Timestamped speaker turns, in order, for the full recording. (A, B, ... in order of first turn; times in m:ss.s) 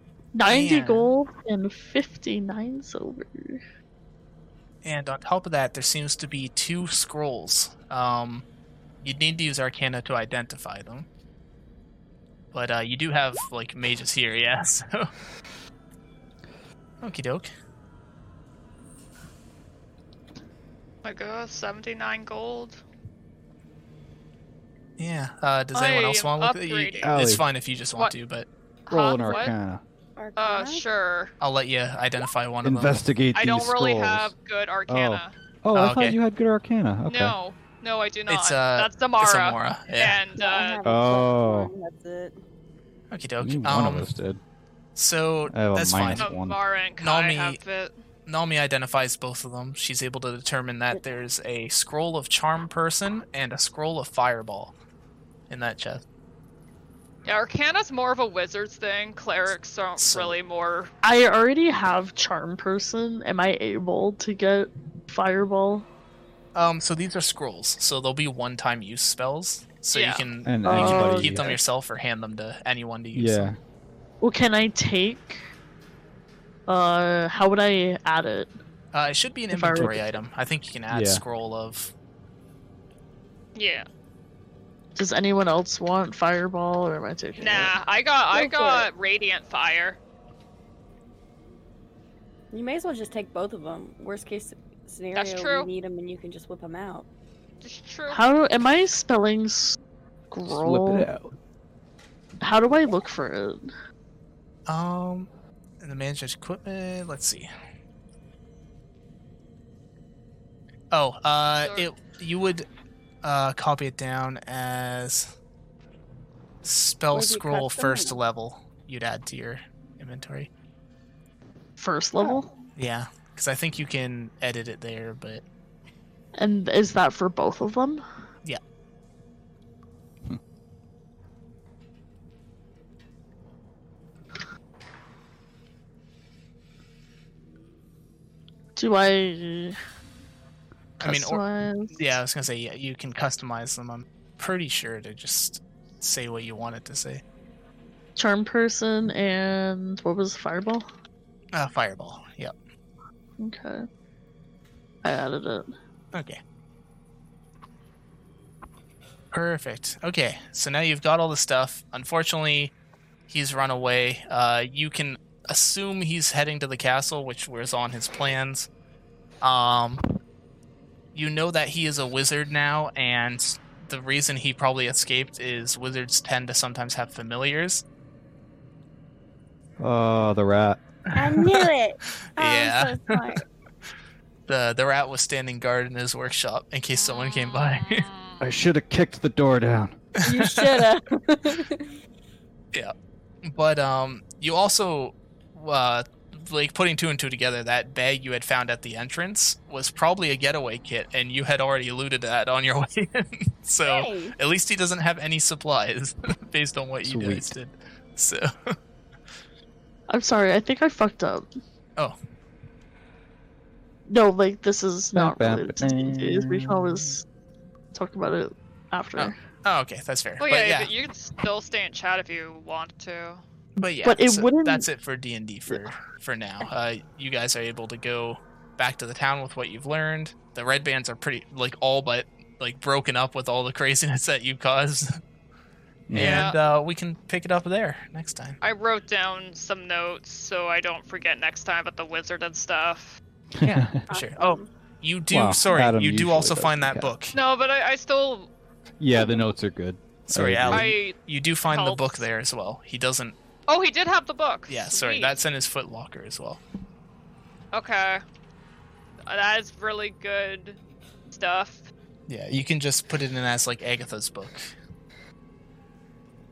0:00.4-0:03.6 A
0:00.5-0:01.1 B
0:04.8-0:08.4 B
0:09.0-0:11.1 B
0:12.5-0:15.1 B
0:17.0-0:17.5 B
0:21.0-0:22.8 C
0:25.0-0:28.5 B
0:25.7-0:27.2 C
0:27.0-0:27.4 D
0:28.9-0:29.5 C
0:28.9-0:29.8 D
0:30.2-0:30.8 E
0:30.4-0:31.3 C
0:31.4-0:33.0 B
0:32.6-0:34.3 D
0:33.3-0:35.3 C
0:34.9-0:37.4 D
0:35.8-0:36.2 B
0:37.1-0:40.8 C
0:38.3-0:40.2 B
0:40.4-0:42.4 E
0:40.8-0:41.7 D
0:43.1-0:44.1 B
0:43.4-0:44.4 D
0:45.0-0:46.3 B
0:45.5-0:46.6 D
0:46.2-0:47.9 C
0:47.0-0:47.6 B
0:48.3-0:54.7 B
0:55.5-0:56.0 B
0:57.3-1:00.9 C
1:00.0-1:00.4 B
1:01.0-1:05.9 A
1:06.6-1:13.5 B
1:09.9-1:10.2 C
1:10.4-1:11.6 D
1:10.6-1:11.6 A
1:13.1-1:13.6 D
1:14.2-1:15.4 A
1:16.7-1:18.5 A
1:18.9-1:21.9 B
1:19.5-1:20.1 A
1:20.9-1:21.2 D
1:23.6-1:23.9 C
1:25.0-1:27.7 A
1:27.4-1:30.0 C
1:28.3-1:28.9 E
1:32.5-1:37.1 E
1:35.1-1:35.7 C
1:37.6-1:38.2 C
1:38.1-1:39.8 A
1:40.3-1:41.1 A
1:40.5-1:41.3 D
1:42.4-1:43.6 A
1:44.7-1:45.3 B
1:45.8-1:47.5 B
1:50.9-1:52.7 B
1:51.6-1:51.9 C
1:53.2-1:55.3 B
1:56.6-2:00.5 B
1:57.1-1:58.2 E
2:01.8-2:02.5 A
2:02.2-2:02.5 E
2:02.8-2:05.4 B
2:06.4-2:08.0 A
2:18.8-2:19.8 A
2:21.0-2:22.0 A
2:21.0-2:21.4 B
2:21.9-2:27.2 B
2:28.2-2:30.8 A
2:31.5-2:32.5 B
2:33.4-2:33.8 A
2:35.0-2:35.7 A
2:36.1-2:36.4 B
2:39.3-2:42.7 B
2:43.3-2:48.7 B
2:49.4-2:50.0 B
2:51.1-2:57.8 B
2:59.8-3:00.8 D
3:01.2-3:03.4 E
3:01.3-3:01.7 B
3:02.4-3:03.2 B
3:04.5-3:08.1 B
3:07.0-3:08.5 C
3:08.4-3:10.0 D
3:10.2-3:11.9 E
3:10.3-3:10.9 B
3:13.4-3:28.7 B
3:23.8-3:24.4 E
3:27.0-3:27.5 D
3:30.1-3:31.5 A
3:34.1-3:37.2 A
3:35.2-3:37.2 D
3:37.9-3:39.4 A
3:39.2-3:40.9 B
3:40.4-3:43.4 C
3:43.8-3:55.2 B
3:44.0-3:44.9 A
3:56.1-3:56.5 D
3:56.1-3:58.6 B
3:56.2-3:56.6 C
3:58.6-4:03.2 C
4:03.6-4:04.0 D
4:03.6-4:07.4 B
4:04.1-4:04.7 E
4:05.3-4:07.1 D
4:07.3-4:08.5 C
4:09.0-4:10.9 D
4:09.1-4:09.4 E
4:10.3-4:13.4 B
4:10.7-4:12.2 C
4:13.7-4:15.4 C
4:14.7-4:16.6 B
4:17.7-4:18.2 C
4:19.3-4:20.8 C
4:21.3-4:21.9 C
4:22.3-4:24.7 B